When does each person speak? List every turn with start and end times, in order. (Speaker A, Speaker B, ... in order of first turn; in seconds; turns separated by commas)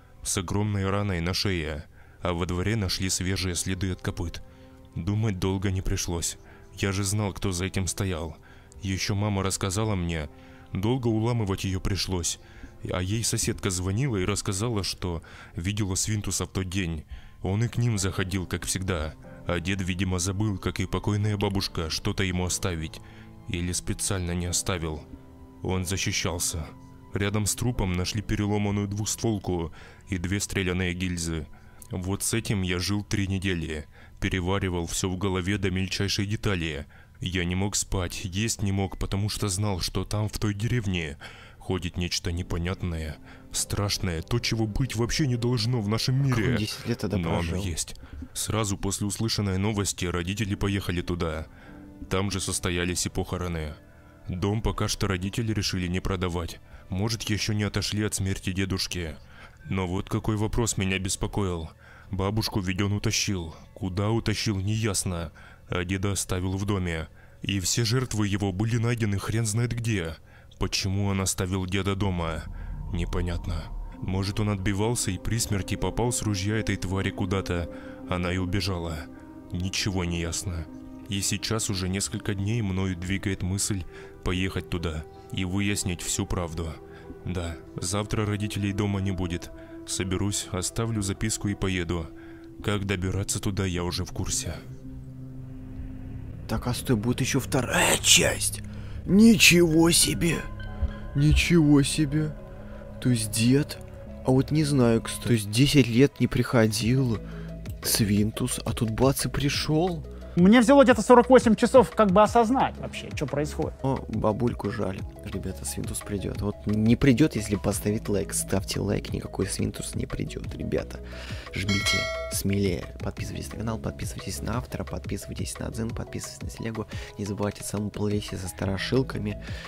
Speaker A: 0.2-25.1, Speaker A: 25.6-51.5, Speaker B: 46.2-47.7, Speaker A: 52.0-94.6, Speaker B: 96.5-100.5, Speaker B: 101.1-102.4, Speaker B: 103.0-107.2, Speaker B: 107.8-110.0, Speaker C: 110.4-113.7, Speaker B: 113.8-129.4